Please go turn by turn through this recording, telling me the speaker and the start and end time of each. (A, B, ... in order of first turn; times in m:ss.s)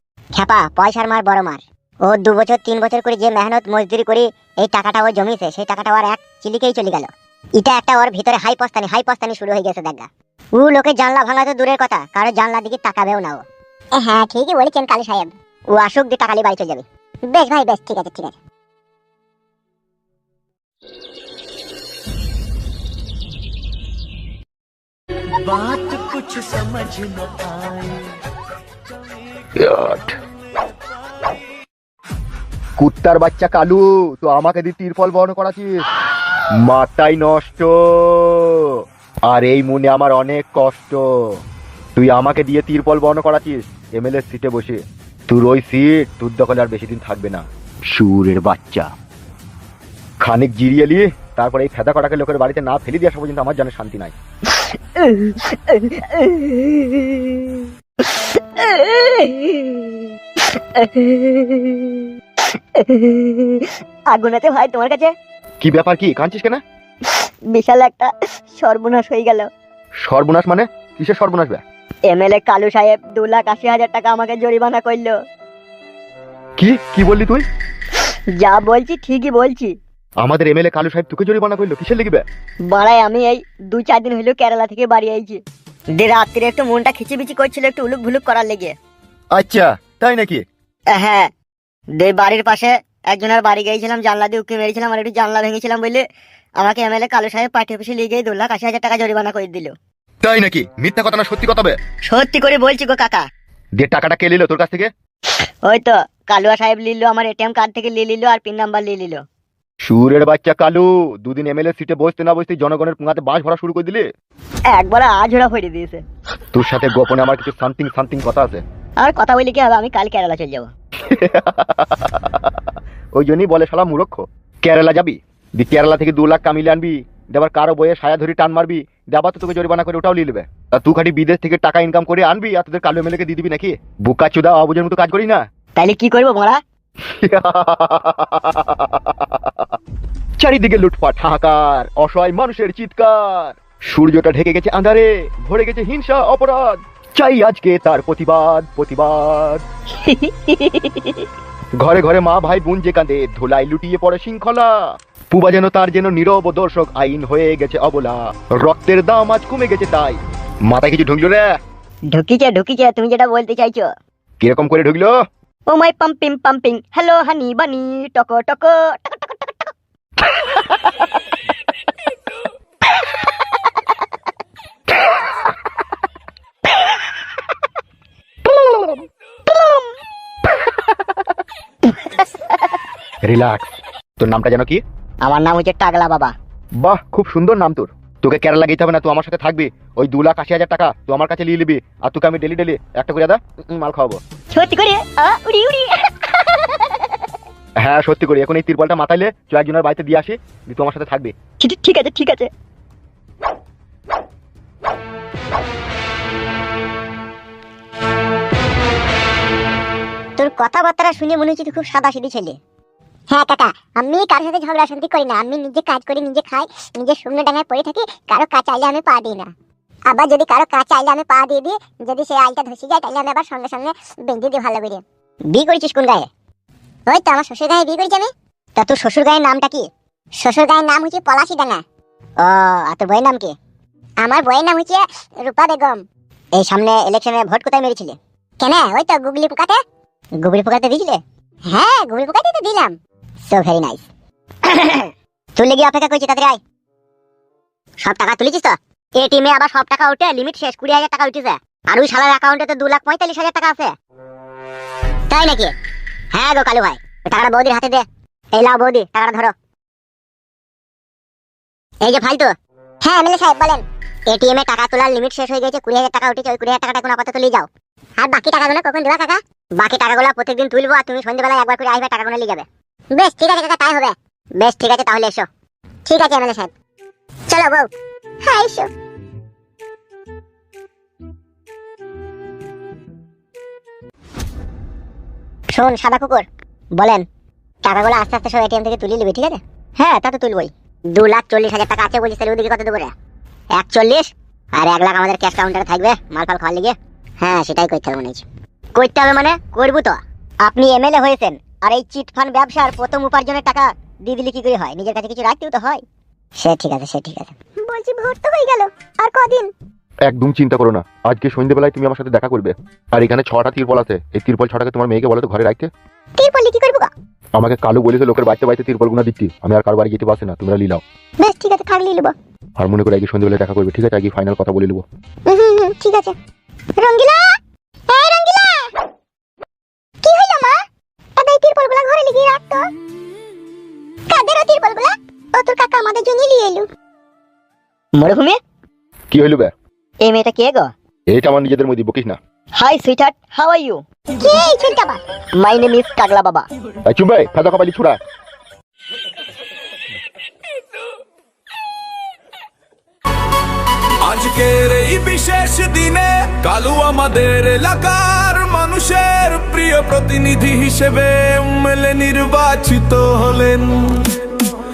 0:00.4-0:18.4 A
0:29.6-0:30.2 B
0:32.8-0:35.7 B
0:36.6-0:38.7 B
0:39.3-0:41.0 B
0:42.0-0:48.9 B
0:50.2-0:54.1 B
0:54.5-1:02.1 C
1:02.8-1:05.1 C
1:05.6-1:06.6 B
1:07.1-1:09.5 C
1:10.0-1:11.6 B
1:12.1-1:15.1 C
1:16.6-1:17.4 B
1:18.4-1:19.7 C
1:20.2-1:22.2 B
1:22.7-1:25.4 C
1:25.9-1:28.7 C
1:29.3-1:30.4 B
1:30.9-1:31.3 C
1:32.0-1:36.0 C
1:36.6-1:39.7 C
1:40.2-1:41.8 B
1:42.1-1:43.2 C
1:43.8-1:44.9 B
1:45.6-1:49.2 C
1:49.8-1:54.1 B
1:54.7-1:56.0 C
1:56.5-1:58.6 B
1:59.0-2:00.7 C
2:01.1-2:02.5 B
2:03.2-2:15.4 B
2:15.8-2:16.6 C
2:17.2-2:19.7 B
2:20.4-2:29.6 B
2:30.0-2:31.2 C
2:31.8-2:34.7 B
2:35.3-2:41.5 B
2:42.1-2:43.9 C
2:44.4-2:45.1 B
2:45.7-2:49.7 C
2:58.6-2:59.0 B
3:03.2-3:03.7 B
3:04.2-3:04.8 B
3:05.2-3:06.3 C
3:06.8-3:14.2 B
3:14.5-3:17.1 C
3:17.8-3:21.3 B
3:21.6-3:22.5 C
3:30.4-3:32.6 A
3:33.3-3:39.5 A
3:40.1-3:46.3 A
3:47.1-3:51.8 A
3:52.4-3:53.5 A
3:54.2-3:56.0 A
3:56.6-3:59.8 A
4:00.4-4:04.0 A
4:04.6-4:06.6 A
4:08.0-4:13.9 A
4:15.3-4:15.7 A
4:16.3-4:19.5 A
4:22.0-4:35.5 A
4:36.0-4:36.7 A
4:37.5-4:37.9 A
4:38.4-4:38.9 A
4:45.7-4:47.2 A
4:47.8-4:53.1 A
4:53.7-5:06.0 A
5:06.6-5:09.7 A
5:10.3-5:15.9 B
5:16.4-5:17.1 A
5:17.6-5:21.0 B
5:21.4-5:22.3 A
5:22.8-5:25.0 B
5:25.4-5:26.4 A
5:27.0-5:27.5 A
5:28.1-5:28.9 A
5:30.2-5:30.8 A
5:31.4-5:32.9 A
5:34.3-5:36.9 A
5:38.2-5:38.6 C
5:39.3-5:39.7 B
5:40.2-5:40.9 C
5:41.3-5:42.4 B
5:42.8-5:44.0 C
5:44.4-5:45.2 A
5:45.6-5:46.7 C
5:47.0-5:48.2 B
5:54.2-6:04.3 D